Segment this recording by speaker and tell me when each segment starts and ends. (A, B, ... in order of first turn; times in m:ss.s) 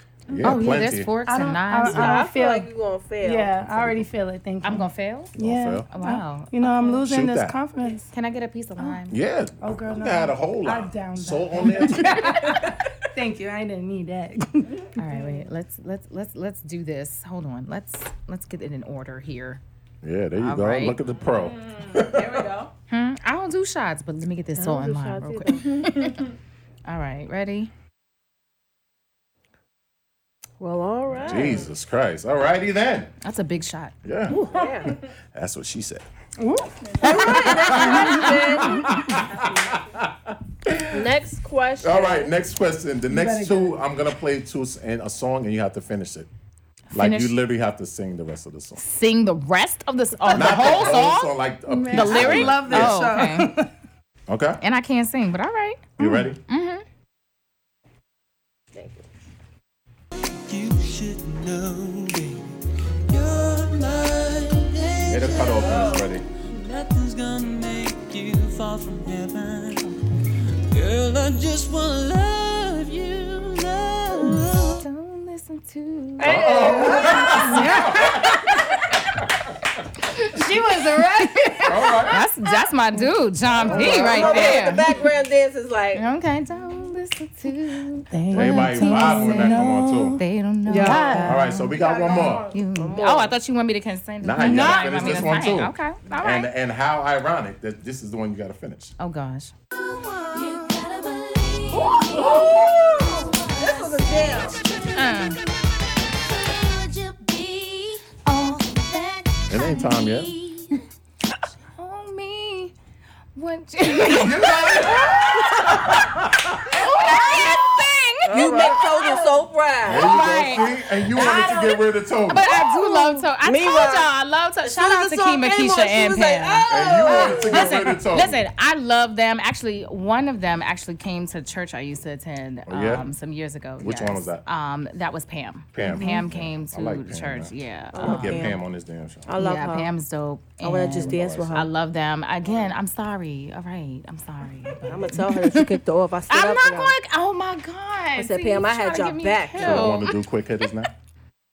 0:00.3-0:01.1 A
0:00.4-0:02.2 B
0:01.2-0:02.7 C
0:01.8-0:03.5 D
0:03.2-0:08.1 C
0:03.6-0:04.1 A
0:04.6-0:05.3 B
0:05.4-0:05.9 A
0:05.9-0:07.0 B
0:07.0-0:07.6 A
0:08.1-0:09.2 B
0:09.1-0:12.6 A
0:09.6-0:14.8 C
0:15.0-0:19.6 B
0:20.0-0:22.4 A
0:20.4-0:21.0 B
0:21.1-0:22.7 E
0:22.9-0:26.3 B
0:24.6-0:25.7 D
0:26.8-0:27.7 B
0:30.6-0:31.7 D
0:31.1-0:31.6 E
0:31.2-0:33.1 A
0:33.2-0:33.9 B
0:34.0-0:36.0 A
0:34.3-0:35.0 D
0:34.5-0:35.0 E
0:36.4-0:37.4 C
0:36.8-0:37.4 E
0:37.0-0:38.9 D
0:37.4-0:41.1 A
0:37.8-0:38.2 B
0:39.0-0:39.8 E
0:40.9-0:42.3 D
0:41.8-0:46.3 A
0:43.1-0:43.8 C
0:46.9-0:47.4 B
0:46.9-0:48.8 A
0:48.8-0:51.3 B
0:50.3-0:53.2 A
0:50.5-0:51.0 C
0:51.6-0:53.7 C
0:51.9-0:53.5 B
0:54.3-0:54.6 A
0:54.6-0:56.8 B
0:56.0-0:56.4 A
0:56.0-0:56.3 C
0:58.7-0:59.0 D
1:00.5-1:10.0 F
1:05.1-1:06.2 A
1:05.5-1:06.1 E
1:10.7-1:14.8 F
1:14.8-1:16.4 B
1:16.2-1:18.6 A
1:16.2-1:17.2 E
1:16.3-1:17.4 D
1:17.3-1:18.3 C
1:20.2-1:24.9 B
1:20.3-1:22.1 C
1:21.6-1:22.2 A
1:22.6-1:23.1 C
1:23.5-1:24.7 A
1:23.7-1:26.0 D
1:24.2-1:24.4 E
1:25.9-1:36.5 B
1:28.1-1:31.5 C
1:28.3-1:30.2 A
1:30.7-1:31.2 D
1:31.2-1:32.4 A
1:31.8-1:32.6 E
1:32.7-1:33.3 D
1:34.2-1:38.9 A
1:34.4-1:35.4 C
1:39.0-1:39.5 B
1:39.9-1:45.5 F
1:41.8-1:44.5 D
1:41.9-1:42.6 E
1:43.3-1:44.6 E
1:44.9-1:45.4 B
1:46.1-1:50.7 F
1:48.2-1:48.8 B
1:49.4-1:50.4 A
1:51.8-1:52.7 B
1:53.4-1:59.0 B
1:53.8-1:57.5 A
1:58.2-1:59.2 A
1:58.3-2:00.2 D
1:59.8-2:02.6 A
1:59.9-2:18.5 B
2:02.9-2:03.1 C
2:03.4-2:04.1 D
2:04.6-2:07.9 D
2:06.7-2:08.4 A
2:12.7-2:13.1 A
2:13.8-2:14.4 A
2:15.7-2:19.3 A
2:15.8-2:16.2 C
2:17.9-2:18.6 D
2:19.2-2:19.9 D
2:19.4-2:25.8 B
2:20.6-2:21.7 D
2:20.9-2:21.7 A
2:24.9-2:26.9 D
2:26.3-2:30.1 B
2:28.2-2:30.0 D
2:29.6-2:30.9 A